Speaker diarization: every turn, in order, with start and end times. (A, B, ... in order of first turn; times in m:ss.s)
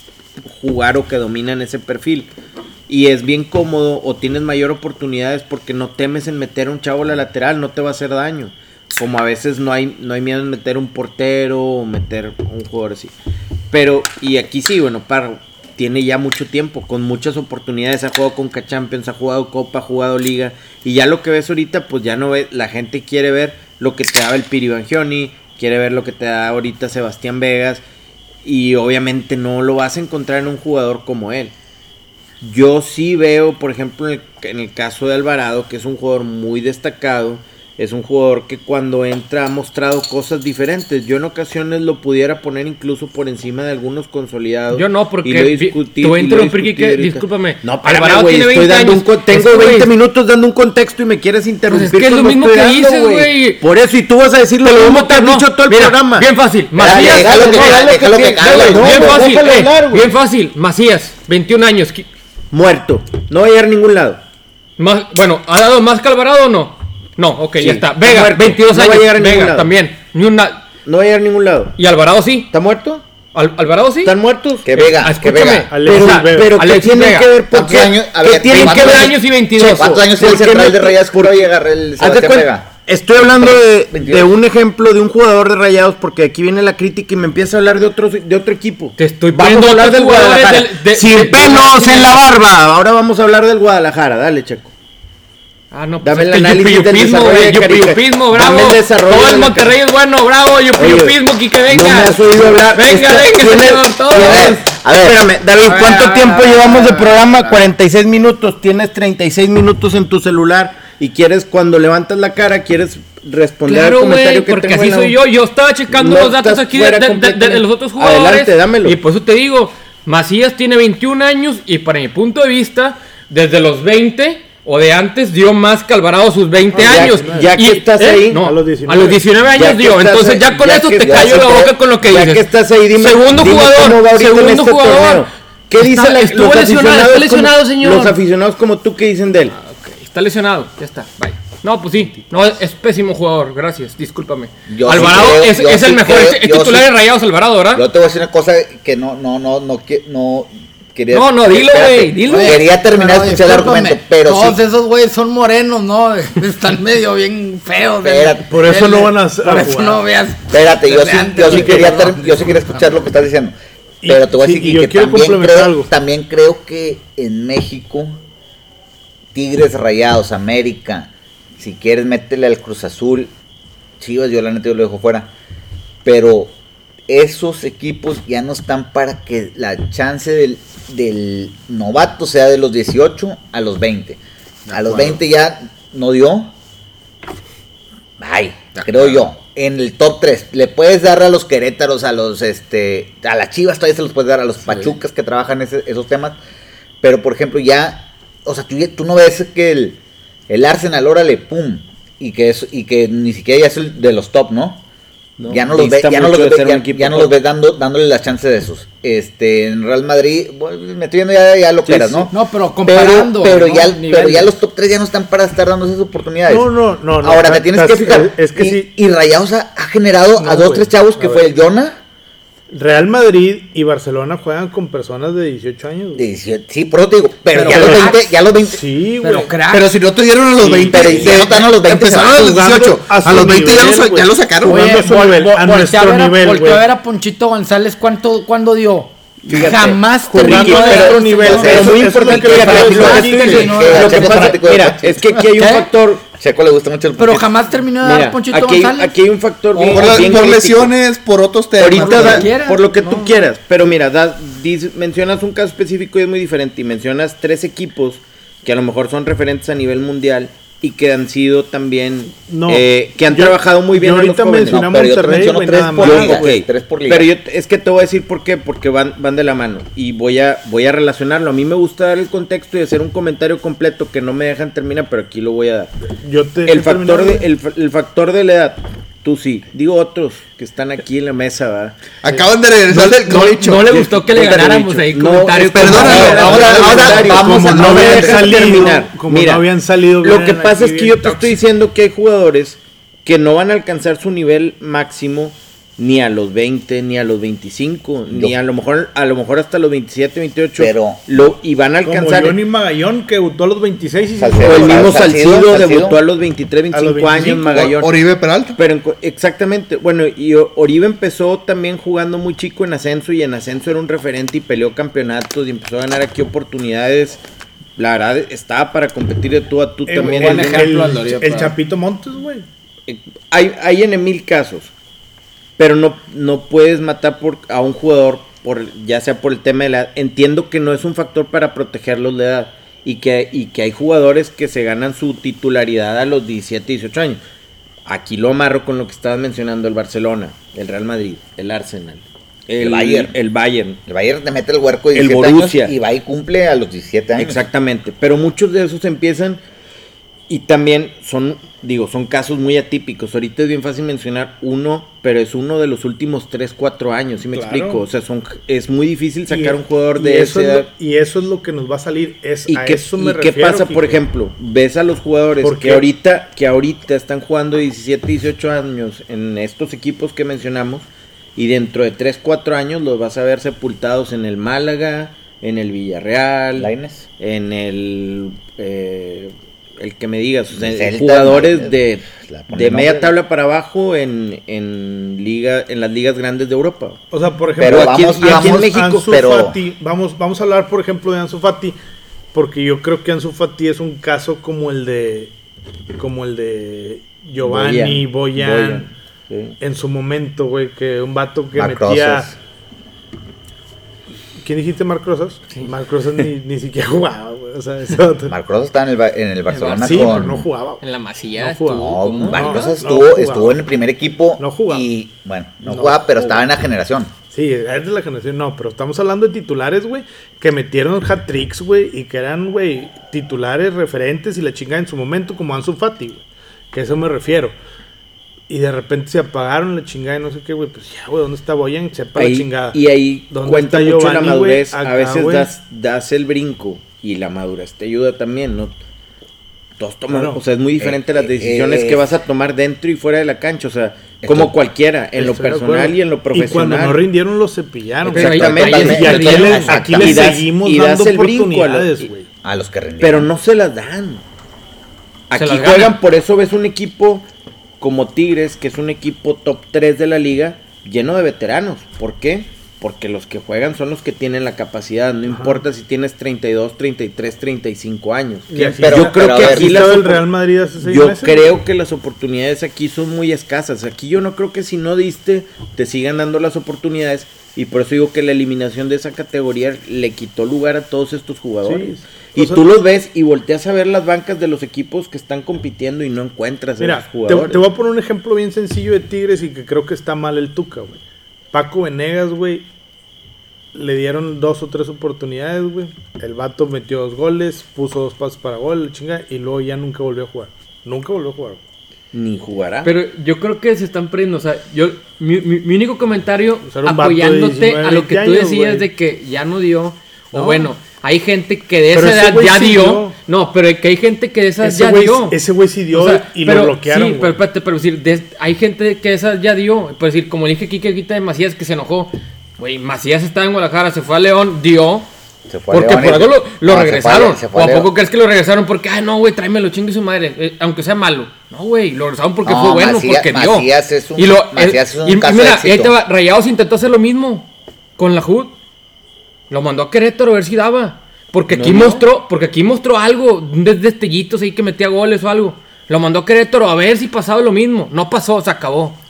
0:00.4-0:02.3 A
0:02.9-0:13.1 A
0:13.7-0:27.8 A
0:28.4-0:31.5 A
0:32.4-1:00.1 A
0:44.7-0:49.9 B
0:51.7-0:53.6 B
0:54.6-1:02.1 B
0:56.8-0:59.3 C
1:02.5-1:04.2 A
1:04.8-1:10.7 B
1:07.6-1:09.7 A
1:10.9-1:11.8 A
1:11.8-1:12.5 B
1:12.5-1:13.0 A
1:13.3-1:14.2 B
1:14.0-1:14.8 A
1:14.7-1:15.7 C
1:14.8-1:17.3 B
1:15.7-1:16.5 D
1:15.8-1:21.5 A
1:17.5-1:22.7 C
1:18.5-1:20.0 B
1:22.0-1:34.7 A
1:23.2-1:24.3 C
1:29.0-1:32.2 B
1:35.7-1:42.2 B
1:36.0-1:39.7 A
1:40.8-1:55.2 A
1:42.7-1:44.6 B
1:44.2-1:45.2 C
1:45.6-1:47.6 E
1:53.7-2:18.2 B
1:55.9-1:59.0 A
2:06.7-2:07.7 D
2:06.7-2:08.4 A
2:08.3-2:09.2 D
2:09.5-2:19.6 A
2:11.0-2:11.8 C
2:19.5-2:27.8 B
2:24.7-2:27.0 C
2:27.7-2:34.6 C
2:31.1-2:32.6 B
2:32.3-2:42.9 E
2:38.0-2:38.5 C
2:38.5-2:40.0 D
2:40.5-2:43.6 C
2:44.0-2:45.9 D
2:44.1-2:48.1 C
2:49.3-2:53.3 C
2:54.0-2:55.3 C
2:56.0-2:56.5 C
2:57.1-3:06.5 C
3:04.7-3:05.0 A
3:08.2-3:16.4 C
3:08.8-3:09.0 A
3:17.0-3:20.0 C
3:20.5-3:24.8 C
3:25.4-3:27.4 A
3:25.5-3:42.0 C
3:31.9-3:32.3 A
3:32.3-3:34.5 E
3:36.5-3:38.9 D
3:40.4-3:41.5 D
3:42.7-3:46.2 D
3:46.1-3:48.8 C
3:47.5-3:48.2 E
3:47.7-3:48.1 D
3:48.7-3:49.6 D
3:49.2-3:50.0 E
3:49.7-3:54.9 F
3:50.6-3:51.2 A
3:50.9-3:52.4 C
3:51.0-3:51.3 D
3:52.2-3:56.8 D
3:54.6-4:04.6 E
3:59.5-4:06.2 A
3:59.5-3:59.9 F
4:00.3-4:04.2 D
4:01.5-4:02.0 C
4:02.3-4:03.8 F
4:03.6-4:05.4 C
4:05.6-4:05.9 E
4:06.4-4:07.5 C
4:07.2-4:09.2 E
4:08.0-4:10.9 A
4:09.7-4:10.4 E
4:09.9-4:12.5 F
4:11.8-4:24.9 A
4:11.9-4:13.5 E
4:22.5-4:26.6 D
4:24.6-4:27.3 C
4:26.0-4:35.9 A
4:36.2-4:37.5 D
4:36.7-4:49.7 A
4:42.2-4:43.9 F
4:43.2-4:46.6 B
4:45.7-4:47.4 F
4:45.9-4:48.9 C
4:46.4-4:51.6 D
4:50.2-5:02.6 A
4:58.3-4:58.6 C
5:00.8-5:01.2 C
5:02.0-5:05.2 D
5:04.4-5:06.2 C
5:04.6-5:08.1 A
5:06.9-5:07.9 D
5:07.8-5:08.8 F
5:08.7-5:17.4 A
5:18.0-5:20.9 A
5:20.1-5:22.6 D
5:20.2-5:21.8 E
5:23.1-5:24.9 A
5:25.8-5:37.4 A
5:38.1-5:44.0 A
5:42.8-5:43.3 C
5:44.1-5:47.6 C
5:45.1-5:45.9 A
5:47.4-5:49.6 A
5:50.5-6:00.9 A
5:57.5-5:58.0 D
5:59.5-6:04.2 D
6:02.7-6:27.2 A
6:05.6-6:06.1 D
6:16.8-6:17.3 C
6:20.7-6:23.4 C
6:27.3-6:32.0 D
6:27.8-6:29.8 C
6:27.8-6:29.3 A
6:32.5-6:35.5 D
6:36.2-6:39.1 D
6:37.6-6:39.8 A
6:39.8-6:42.5 D
6:41.7-6:42.5 C
6:44.6-6:48.5 D
6:48.5-6:50.7 C
6:49.7-6:53.0 B
6:50.0-6:51.0 D
6:51.6-6:53.8 D
6:52.0-6:57.3 C
6:54.6-6:55.0 D
6:55.9-6:56.6 D
6:57.5-7:07.8 D
7:08.7-7:13.0 D
7:12.4-7:19.0 A
7:13.5-7:15.7 D
7:20.0-7:27.2 A
7:20.3-7:20.6 D
7:21.0-7:22.3 C
7:24.4-7:24.7 C
7:25.4-7:32.5 D
7:28.3-7:30.6 C
7:28.3-7:32.3 A
7:28.4-7:30.0 B
7:32.6-7:33.5 C
7:33.2-7:34.4 A
7:35.5-7:37.5 A
7:35.6-7:36.2 B
7:38.0-7:50.5 A
7:45.5-7:45.8 D
7:48.7-7:51.7 D
7:48.8-7:50.0 C
7:51.0-8:07.9 A
8:01.8-8:02.8 D
8:07.0-8:11.2 D
8:11.7-8:12.9 D
8:13.9-8:21.8 D
8:22.3-8:23.1 A
8:23.0-8:35.6 B
8:26.8-8:29.1 D
8:30.5-8:30.9 D
8:32.1-8:33.4 D
8:34.8-8:37.6 D
8:36.1-8:45.3 B
8:45.7-8:48.1 C
8:45.9-8:58.7 B
8:52.6-8:56.1 C
8:59.7-9:09.2 B
9:01.7-9:02.2 A